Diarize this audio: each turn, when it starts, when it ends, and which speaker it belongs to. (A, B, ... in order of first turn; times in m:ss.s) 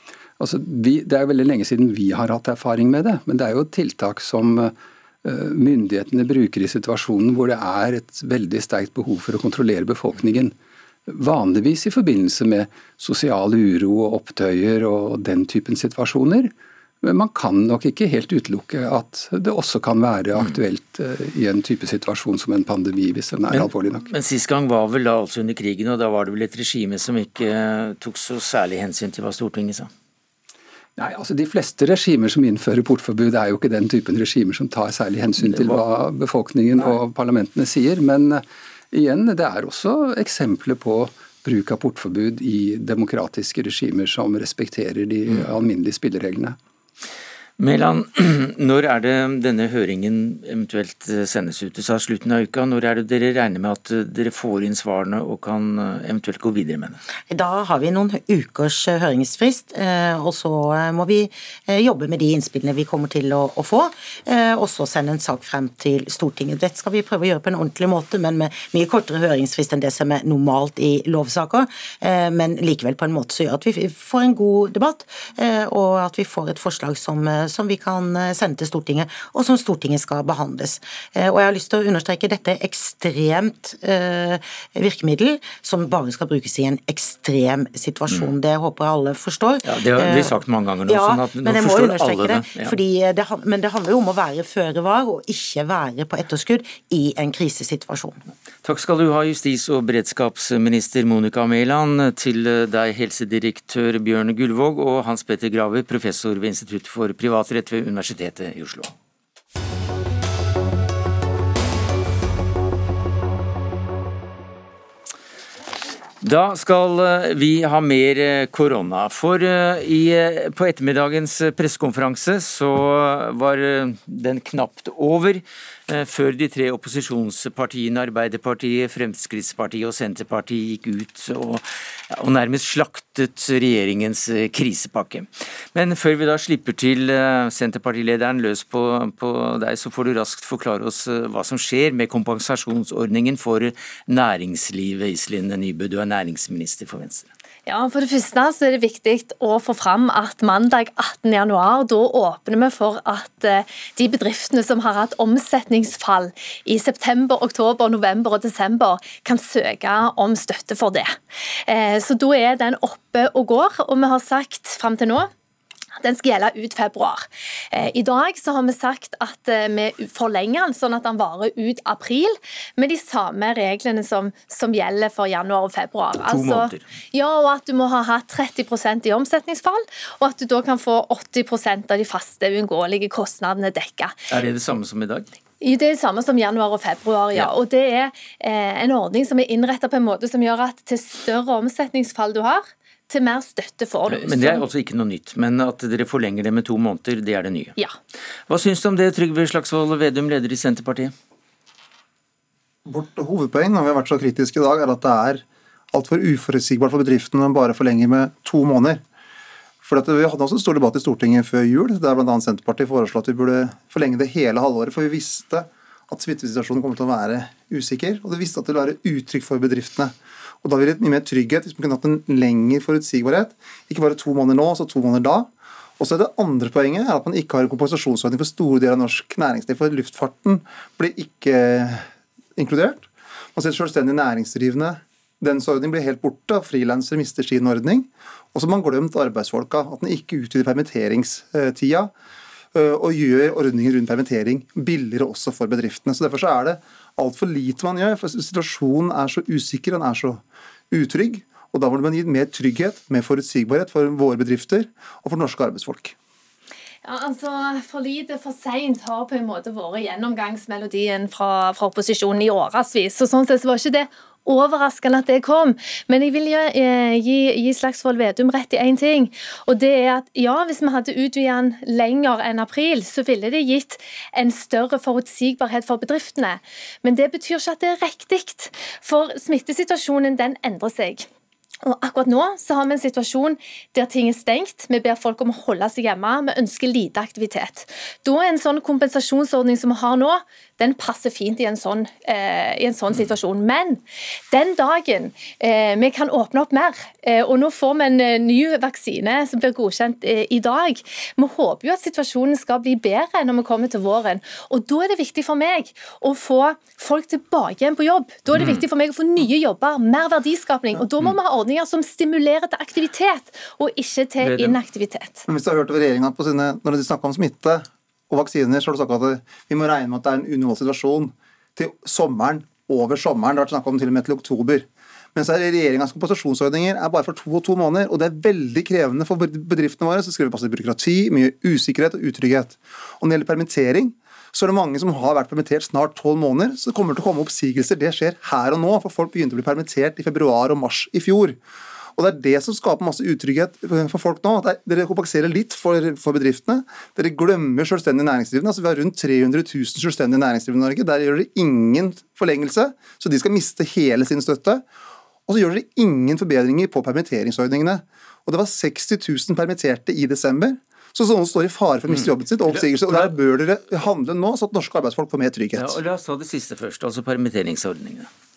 0:00.4-0:10.5 A
0:11.1-0:24.1 A
0:23.5-0:29.9 B
0:31.0-0:46.6 A
0:35.4-0:35.8 B
0:47.6-0:57.0 B
0:57.3-1:30.4 C
1:29.6-1:32.8 B
1:30.9-1:38.2 C
1:38.6-1:48.9 B
1:56.2-2:27.3 B
2:27.7-2:45.3 D
2:46.0-3:04.2 D
2:56.2-2:56.8 B
3:04.3-3:05.3 B
3:05.6-3:14.6 D
3:14.1-3:17.8 B
3:18.5-3:21.1 B
3:22.9-3:29.0 E
3:29.8-4:02.1 E
4:02.7-4:16.2 E
4:17.0-4:41.3 D
4:41.8-5:15.5 D
5:08.5-5:08.8 B
5:14.4-5:14.8 B
5:15.5-5:41.6 E
5:42.2-5:54.8 E
5:55.5-6:06.0 E
6:02.1-6:03.3 B
6:05.8-6:08.3 B